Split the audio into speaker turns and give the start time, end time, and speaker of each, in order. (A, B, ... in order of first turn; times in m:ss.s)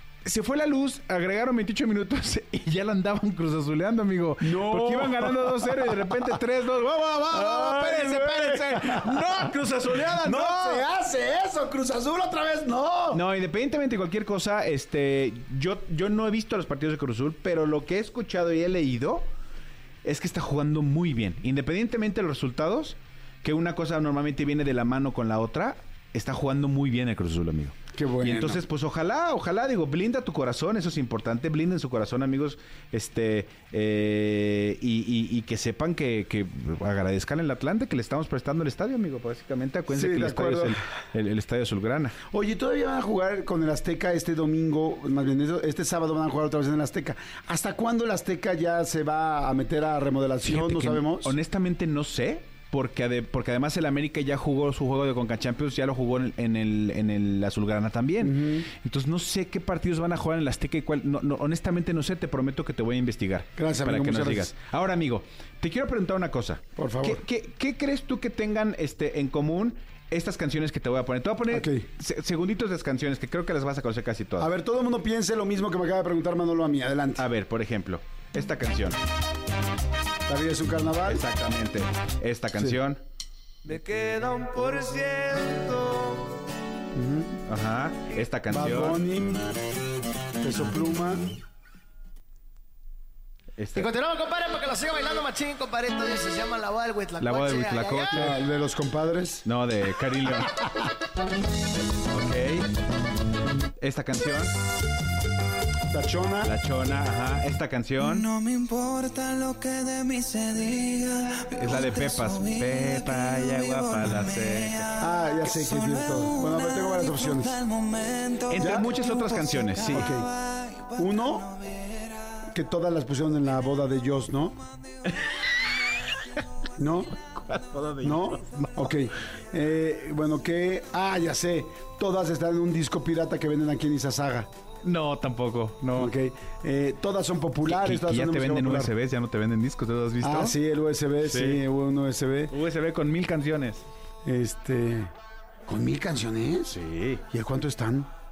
0:00.2-0:10.8 A
0:04.4-0:06.4 B
0:07.3-0:09.5 B
0:10.1-0:13.2 B
0:13.1-0:19.3 A
0:20.0-0:42.2 A
0:27.9-0:28.6 B
0:39.9-0:40.8 B
0:42.3-0:51.4 B
0:50.4-1:14.5 A
0:58.2-0:58.7 B
1:03.6-1:04.5 B
1:06.8-1:07.2 B
1:11.5-1:11.8 B
1:14.4-1:17.2 B
1:17.2-1:19.0 A
1:20.3-1:21.2 B
1:21.0-1:23.0 A
1:23.6-1:26.3 C
1:26.9-1:27.4 B
1:27.5-1:29.0 A
1:28.5-1:29.5 B
1:30.4-1:31.3 B
1:33.6-1:34.0 A
1:33.7-1:38.1 C
1:37.2-1:38.4 A
1:38.1-1:39.4 B
1:39.4-1:40.6 A
1:42.0-1:42.7 A
1:43.8-1:44.5 A
1:45.9-1:46.5 B
1:46.4-1:48.3 A
1:48.3-1:51.4 D
1:51.5-1:54.9 A
1:55.0-1:57.6 B
1:57.8-1:58.4 C
1:58.0-1:58.4 D
1:58.5-2:00.1 A
1:58.6-1:59.0 B
1:59.8-2:00.3 B
2:00.8-2:01.6 B
2:02.5-2:04.6 B
2:06.8-2:07.1 B
2:07.4-2:08.7 A
2:08.0-2:14.5 B
2:14.8-2:16.1 A
2:15.9-2:18.9 B
2:17.6-2:20.6 A
2:20.2-2:22.5 B
2:21.2-2:21.6 A
2:22.5-2:23.8 A
2:24.2-2:25.1 B
2:25.6-2:26.8 B
2:26.7-2:27.2 A
2:27.3-2:28.1 B